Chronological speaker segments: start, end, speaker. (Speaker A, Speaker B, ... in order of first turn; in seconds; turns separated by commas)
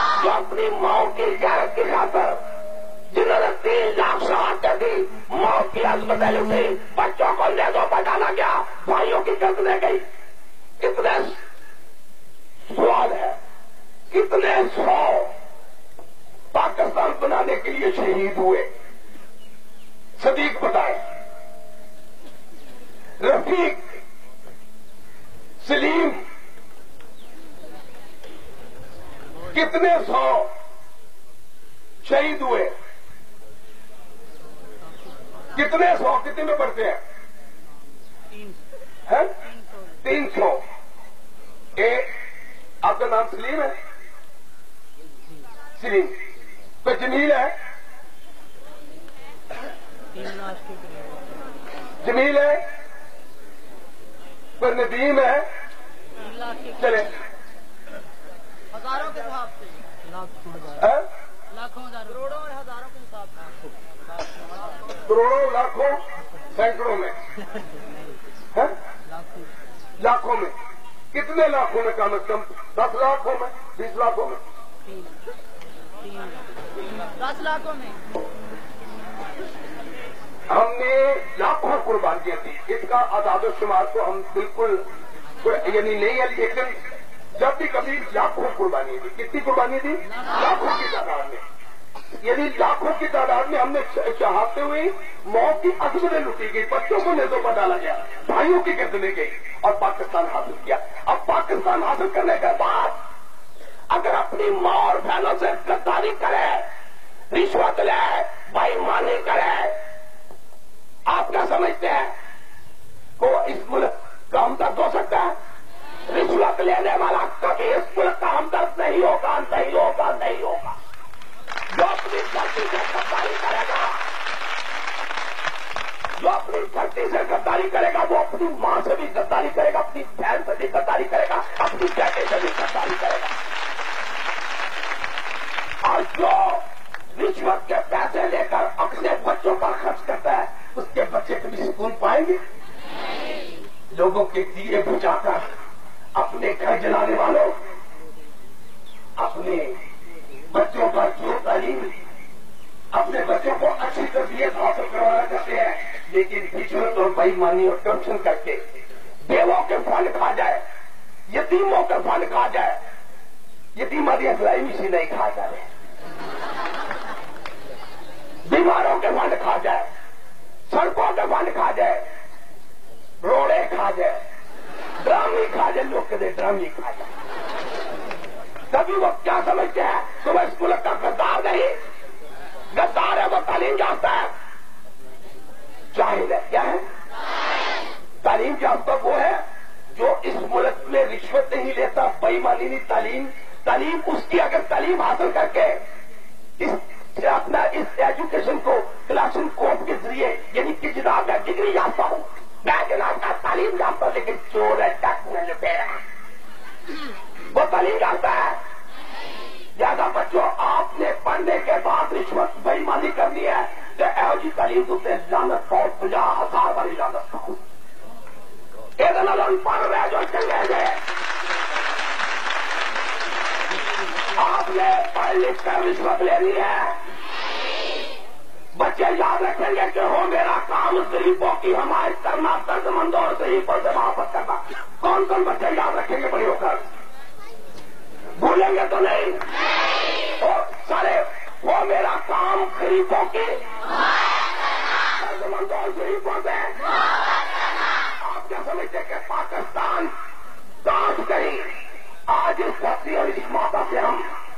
Speaker A: 0.2-2.4, Speaker A: 3.1-10.0, Speaker A: 10.8-11.4, Speaker A: 12.7-13.4, Speaker A: 14.1-15.3, Speaker A: 16.5-18.7, Speaker A: 20.2-21.0, Speaker A: 23.2-23.8, Speaker A: 25.6-26.2, Speaker A: 29.5-30.5, Speaker A: 32.0-32.8, Speaker A: 35.5-37.0, Speaker A: 39.1-39.3, Speaker A: 40.0-40.6, Speaker A: 41.8-42.1, Speaker A: 42.8-43.8, Speaker A: 45.8-46.2, Speaker A: 46.8-47.5, Speaker B: 50.1-50.9, Speaker A: 52.0-52.6, Speaker A: 54.6-55.5, Speaker B: 56.2-56.8, Speaker A: 56.8-57.1, Speaker B: 58.7-60.7, Speaker A: 60.8-61.1, Speaker B: 61.6-63.5, Speaker A: 65.1-66.0, Speaker A: 66.5-67.2, Speaker A: 70.0-70.5, Speaker A: 71.1-74.4, Speaker B: 77.2-78.0, Speaker A: 80.5-84.8, Speaker A: 85.4-86.8, Speaker A: 87.4-91.4, Speaker A: 92.2-103.0, Speaker A: 103.9-106.7, Speaker A: 107.3-109.8, Speaker A: 111.1-112.1, Speaker A: 113.2-115.3, Speaker A: 116.1-120.8, Speaker A: 121.7-124.0, Speaker A: 126.2-133.3, Speaker A: 135.8-136.6, Speaker A: 137.2-142.4, Speaker A: 143.9-145.4, Speaker A: 146.2-147.6, Speaker A: 149.2-149.8, Speaker A: 150.5-151.9, Speaker A: 152.9-158.6, Speaker A: 159.2-160.6, Speaker A: 161.3-162.8, Speaker A: 163.8-165.7, Speaker A: 168.4-169.9, Speaker A: 170.7-172.0, Speaker A: 173.2-174.2, Speaker A: 175.0-177.1, Speaker A: 178.7-181.8, Speaker A: 182.7-184.3, Speaker A: 185.9-186.8, Speaker A: 188.2-189.4, Speaker A: 189.9-195.8, Speaker A: 196.6-206.0, Speaker A: 207.5-208.6, Speaker A: 209.8-217.6, Speaker A: 219.0-221.0, Speaker A: 224.3-227.0, Speaker A: 228.7-236.8, Speaker A: 238.4-239.4, Speaker A: 240.4-243.6, Speaker A: 245.2-246.8, Speaker A: 248.2-250.1, Speaker A: 250.8-251.7, Speaker A: 252.3-254.3